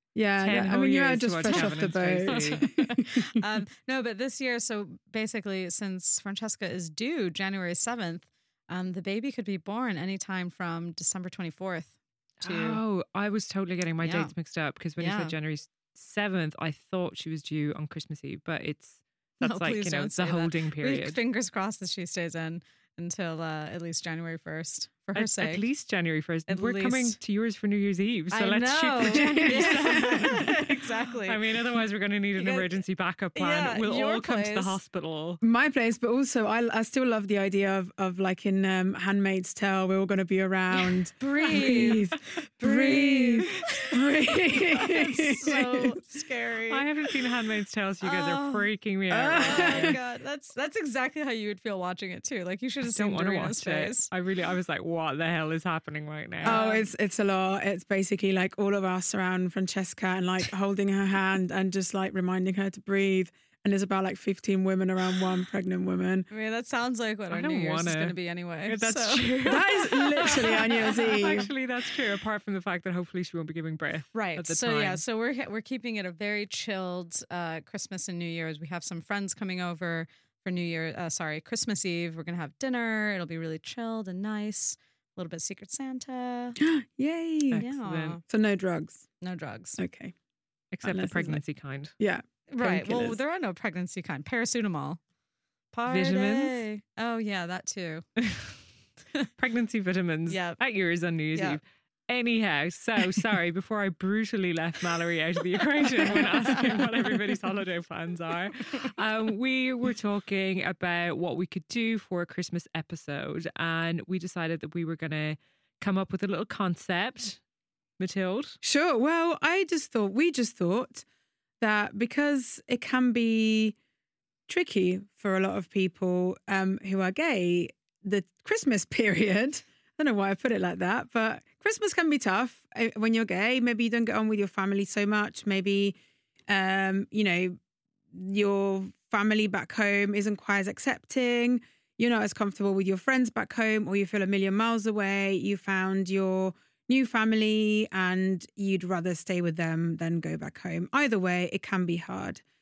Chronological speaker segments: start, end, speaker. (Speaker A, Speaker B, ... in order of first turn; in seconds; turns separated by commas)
Speaker A: 0.1-3.4, Speaker B: 0.4-2.6, Speaker C: 1.5-1.7, Speaker C: 2.2-12.8, Speaker B: 12.4-21.2, Speaker C: 14.0-14.3, Speaker C: 15.0-15.3, Speaker C: 19.4-25.6, Speaker B: 25.1-35.4, Speaker C: 26.5-27.2, Speaker C: 28.3-31.5, Speaker A: 29.1-30.5, Speaker C: 32.4-32.8, Speaker C: 33.4-34.8, Speaker A: 35.4-46.0, Speaker C: 41.2-46.9, Speaker B: 46.7-50.0, Speaker C: 48.0-48.7, Speaker A: 49.1-50.0, Speaker C: 49.3-54.1, Speaker B: 52.8-56.6, Speaker C: 56.4-56.9, Speaker A: 56.4-66.3, Speaker C: 66.3-69.6, Speaker B: 67.3-68.2, Speaker B: 68.7-75.0, Speaker A: 69.4-71.5, Speaker C: 70.2-71.1, Speaker C: 74.1-86.6, Speaker A: 86.6-87.7, Speaker B: 87.5-88.2, Speaker C: 87.6-88.2, Speaker A: 88.2-89.0, Speaker C: 89.2-89.8, Speaker A: 89.8-90.1, Speaker B: 90.7-91.9, Speaker A: 90.8-91.4, Speaker A: 92.0-93.2, Speaker C: 92.5-95.0, Speaker C: 95.7-98.1, Speaker B: 95.9-96.6, Speaker B: 98.2-98.6, Speaker B: 99.4-117.4, Speaker C: 100.3-100.6, Speaker C: 101.3-101.6, Speaker C: 105.8-106.9, Speaker B: 118.0-118.6, Speaker A: 118.6-121.0, Speaker A: 121.6-123.8, Speaker A: 124.5-136.0, Speaker A: 136.5-137.6, Speaker A: 138.1-152.4